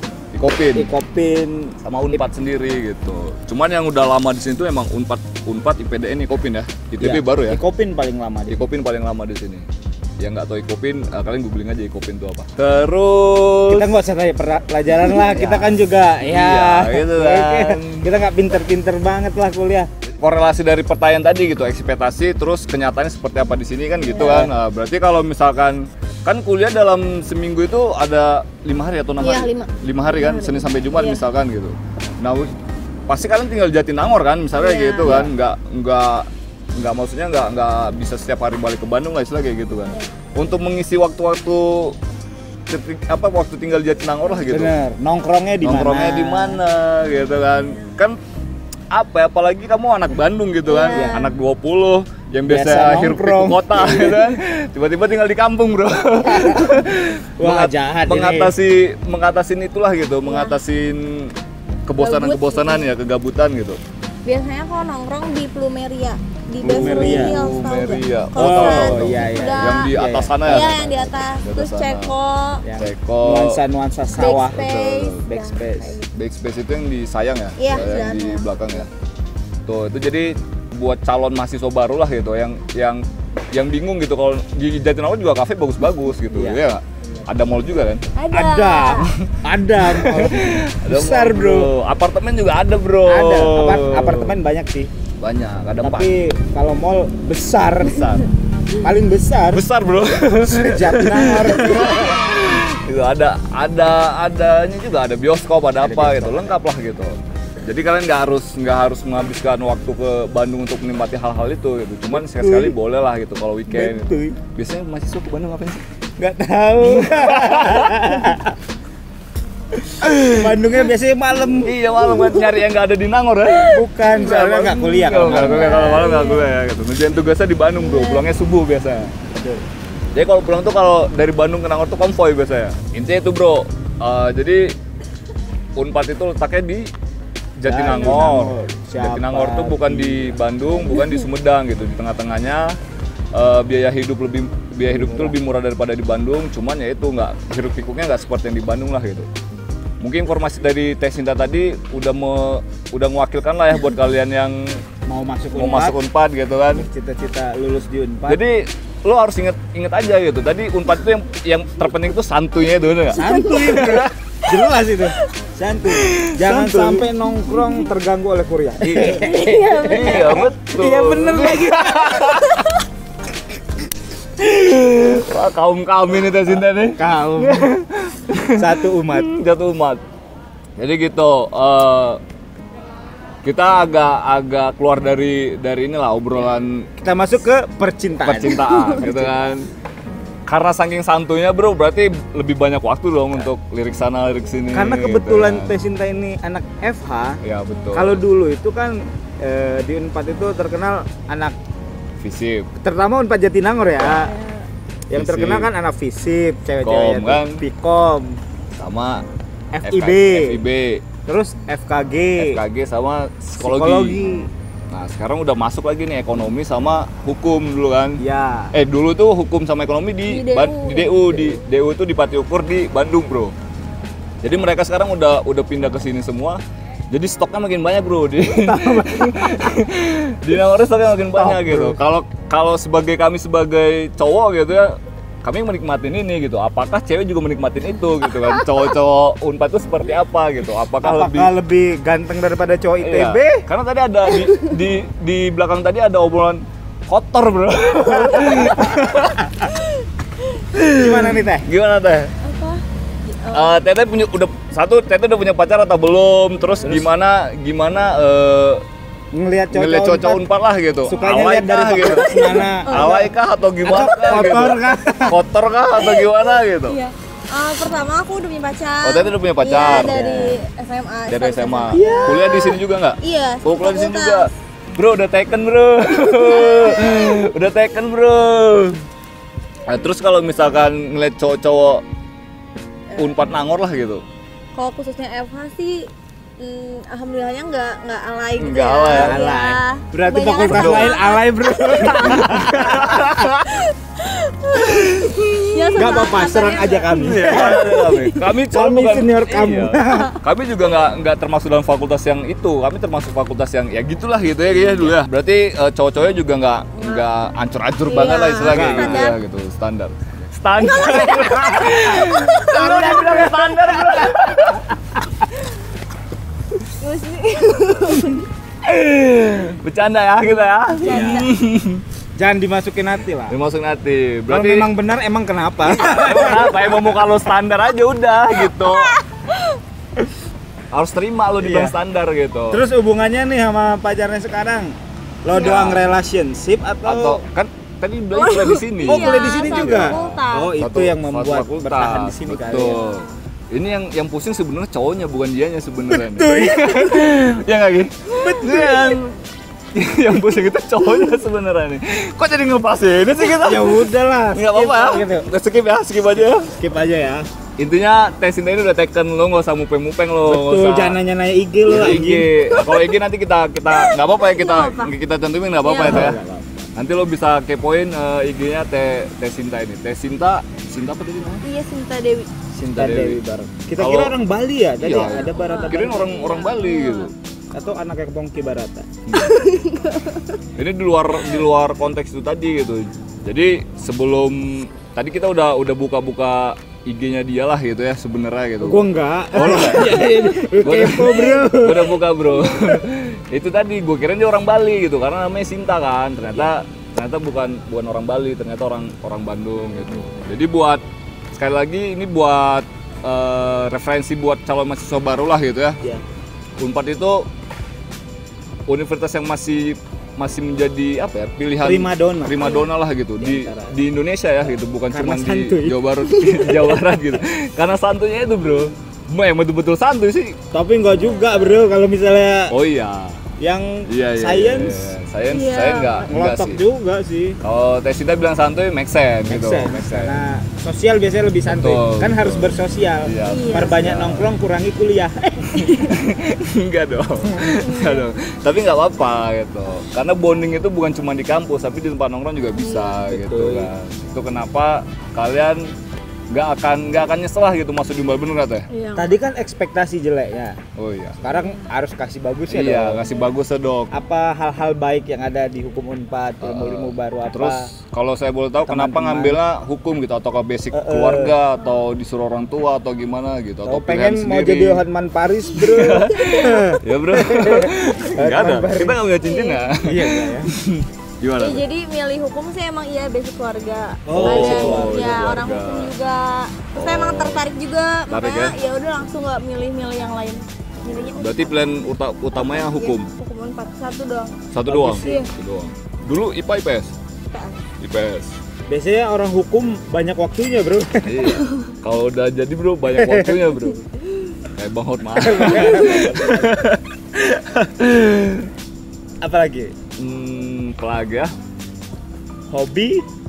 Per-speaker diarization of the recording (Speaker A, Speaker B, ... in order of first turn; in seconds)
Speaker A: 0.3-0.9, 1.8-7.6, 8.5-9.7, 10.2-13.9, 15.2-18.1, 20.2-32.6, 33.1-42.0, 42.7-44.7, 45.6-48.2, 48.9-61.3, 61.9-63.8, 66.6-72.2, 72.8-73.6, 74.5-75.2, 76.1-78.9, 79.7-88.0, 89.8-94.4, 95.2-96.1, 97.8-98.3, 99.5-115.8, 116.8-118.3, 120.0-120.5, 121.6-129.2, 130.1-134.7, 135.8-136.9, 137.6-142.8, 143.3-149.3, 150.0-154.8, 155.5-156.9, 158.3-164.1, 165.9-167.1, 168.8-172.7, 174.4-180.0, 180.8-182.2, 183.4-186.9, 188.2-189.7, 190.5-195.7, 197.4-198.2, 202.2-202.7, 205.1-205.7, 206.8-207.6, 208.8-209.2, 209.8-211.0, 212.4-214.2, 214.9-218.2, 218.7-223.6, 224.4-241.5, 243.0-249.7, 250.7-252.3, 253.5-258.8, 259.7-267.0, 269.0-270.5, 271.3-279.0, 279.9-282.0, 283.2-284.2, 288.6-289.4, 290.7-291.1, 292.2-293.9, 294.8-296.3, 297.1-314.9, 318.8-322.0, 323.5-324.9, 325.9-329.2, 330.9-332.8, 335.6-336.0, 337.1-349.2, 349.9-356.8, 357.8-361.2, 361.9-366.4, 367.0-371.6, 372.9-373.4, 374.0-374.4, 375.0-377.3, 379.3-379.6, 380.8-406.0, 406.8-407.5, 408.9-420.6, 422.7-423.4, 424.1-426.8, 427.6-430.4, 431.7-434.5, 435.7-445.9, 446.5-448.9, 451.0-451.5, 452.7-454.1, 456.6-465.0, 465.8-471.8, 474.3-476.1, 476.9-477.7, 478.3-478.8, 481.4-483.3, 484.7-487.1, 488.0-488.6, 491.2-494.1, 494.7-498.7, 500.2-501.5
Speaker B: 0.7-2.2, 7.0-8.6, 13.7-19.9, 24.2-24.5, 35.0-35.3, 44.5-46.6, 50.9-51.2, 52.5-54.4, 56.3-56.8, 57.4-58.5, 66.6-67.4, 68.3-71.1, 72.6-74.7, 75.3-76.0, 86.3-86.6, 88.3-91.7, 93.1-94.9, 95.8-98.1, 98.8-99.6, 100.4-102.2, 105.8-106.6, 112.1-112.8, 113.7-114.4, 116.2-118.5, 120.3-121.8, 123.7-126.1, 129.3-129.6, 137.7-140.4, 144.8-145.4, 155.1-156.0, 156.7-158.4, 163.1-172.3, 177.0-177.7, 178.6-179.3, 187.0-189.5, 194.7-197.4, 197.9-201.6, 202.8-204.3, 205.1-208.4, 209.7-210.6, 211.3-212.6, 213.6-214.5, 218.2-218.7, 228.5-229.6, 231.3-232.0, 241.0-243.7, 248.6-249.3, 250.9-251.7, 256.8-257.1, 259.3-260.4, 261.1-263.3, 263.8-265.4, 269.7-270.6, 271.9-272.4, 289.1-293.3, 296.0-298.0, 298.7-300.4, 308.6-309.3, 312.7-314.2, 321.1-321.5, 322.4-323.5, 324.5-327.2, 331.6-332.0, 332.7-337.4, 339.1-343.0, 346.1-347.2, 348.4-349.1, 353.4-355.5, 356.3-357.5, 360.4-362.6, 365.9-366.8, 372.7-376.6, 377.7-379.2, 388.8-393.0, 411.8-412.8, 413.4-413.9, 415.1-416.0, 420.7-422.7, 423.6-425.1, 426.3-427.6, 429.5-435.9, 443.3-443.9, 449.2-450.8, 451.4-453.3, 454.1-457.9, 458.9-459.6, 460.9-461.6, 463.8-469.2, 470.0-470.7, 474.3-475.4, 484.9-485.4, 488.9-491.4, 493.1-493.6, 495.3-496.8, 499.4-499.9, 502.7-503.2
Speaker C: 24.1-24.4, 29.2-31.2, 34.5-35.2, 47.2-48.0, 50.6-51.4, 60.2-60.6, 62.0-62.9, 64.2-72.6, 74.2-76.1, 77.6-78.5, 88.2-89.1, 101.5-102.6, 122.1-122.5, 125.2-126.5, 127.7-128.3, 163.2-164.0, 169.1-170.5, 172.5-172.8, 204.0-204.7, 220.3-221.6, 252.4-253.8, 261.2-263.1, 266.0-274.5, 276.3-277.0, 283.1-283.4, 284.8-298.5, 304.7-305.1, 307.0-307.3, 308.1-309.4, 310.8-313.4, 317.0-318.5, 320.4-321.5, 328.6-329.8, 335.5-336.0, 338.3-340.7, 342.8-343.4, 348.5-349.2, 362.7-363.1, 363.9-365.1, 365.8-366.3, 371.6-372.5, 375.1-377.3, 379.3-380.6, 416.5-416.8, 425.5-426.2, 433.4-434.0, 435.8-436.2, 437.6-438.3, 442.8-443.3, 448.9-449.4, 451.5-451.9, 469.4-469.9, 471.6-481.9, 482.6-484.6, 485.1-485.5, 487.5-487.8, 491.5-491.9